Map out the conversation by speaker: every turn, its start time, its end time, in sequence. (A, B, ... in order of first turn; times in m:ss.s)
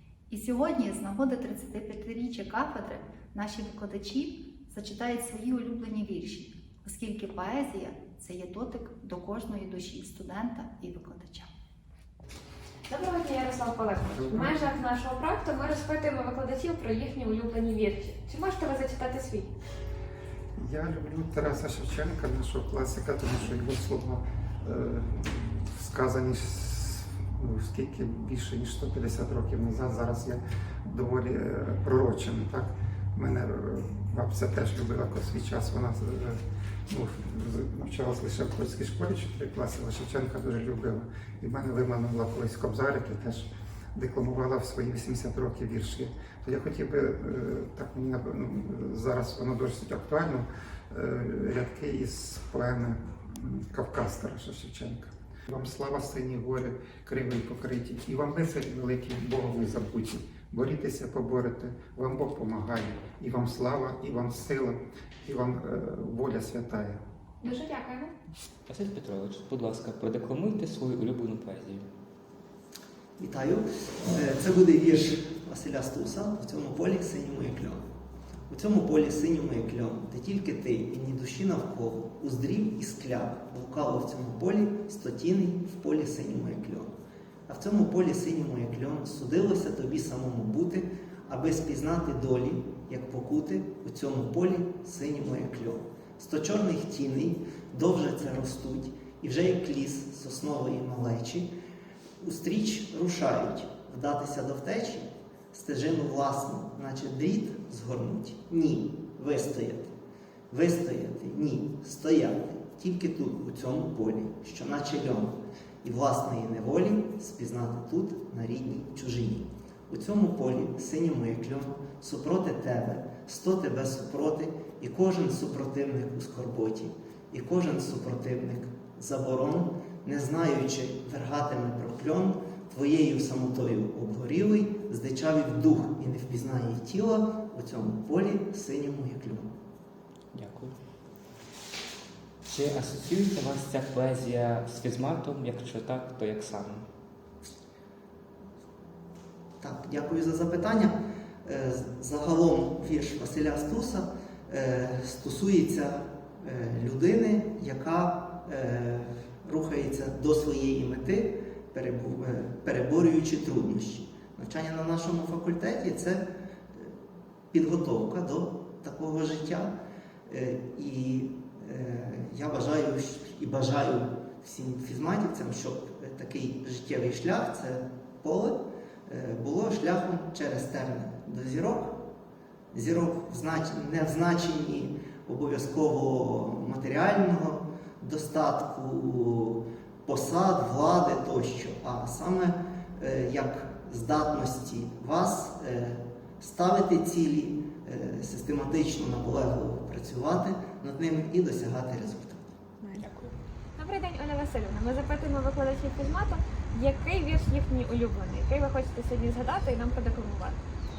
0:00.3-0:11.5 A
0:12.9-0:19.5 B
0:14.1-0:14.6 C
0:20.6-0:36.4 C
0:36.9-1:07.0 C
1:07.4-1:08.1 B
1:08.7-1:11.9 D
1:13.2-1:17.8 E
1:18.5-1:26.9 E
1:27.5-1:41.5 E
1:42.2-1:49.9 E
1:50.5-2:19.5 E
2:20.3-2:20.7 D
2:22.5-2:26.9 D
2:29.6-2:46.9 E
2:47.5-2:49.7 E
2:50.3-3:02.0 E
3:02.7-3:22.4 E
3:23.8-3:30.6 B